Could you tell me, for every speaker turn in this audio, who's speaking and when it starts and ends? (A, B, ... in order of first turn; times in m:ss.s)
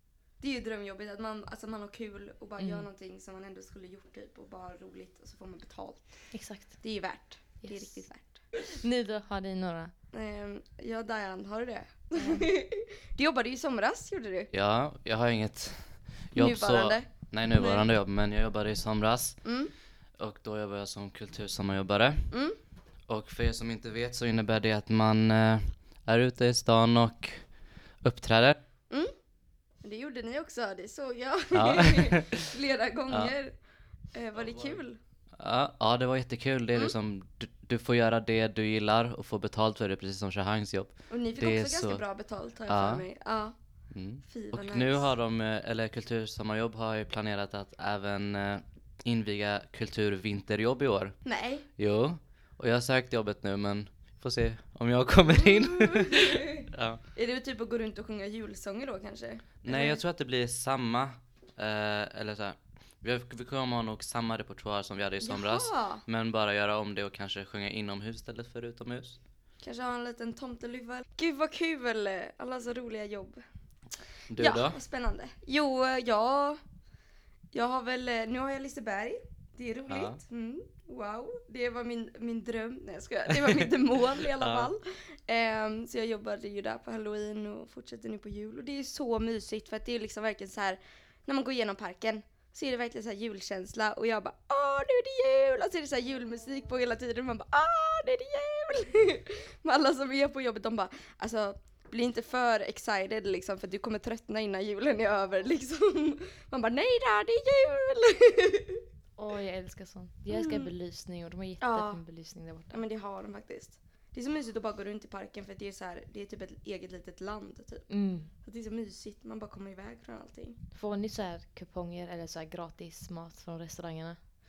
0:00.4-0:08.4 A
0:02.6-0:02.9 B
0:06.3-0:06.8 B
0:07.6-0:09.9 B
0:10.1-0:14.5 A
0:12.2-0:12.5 B
0:14.5-0:22.4 C
0:16.4-0:17.8 A
0:19.4-0:19.7 A
0:22.3-0:22.6 A
0:23.1-0:28.6 C
0:29.8-0:33.6 A
0:31.5-0:32.4 C
0:33.1-0:33.3 C
0:34.1-0:35.0 A
0:34.4-0:34.8 C
0:35.4-0:42.1 C
0:41.1-0:43.6 A
0:42.7-0:43.0 C
0:43.9-0:57.0 C
0:44.2-0:45.1 A
0:51.2-0:51.6 A
0:55.4-0:56.6 A
0:57.1-1:00.0 A
0:59.6-1:09.2 C
1:05.2-1:06.0 A
1:09.6-1:13.4 A
1:14.3-1:14.8 C
1:14.4-1:16.6 A
1:17.5-1:48.8 A
1:19.9-1:20.2 C
1:23.3-1:24.7 C
1:49.2-1:52.8 B
1:50.3-1:50.7 A
1:51.6-1:52.0 A
1:52.7-1:57.9 A
1:57.9-1:58.3 B
1:58.4-2:00.6 A
2:00.7-2:04.2 B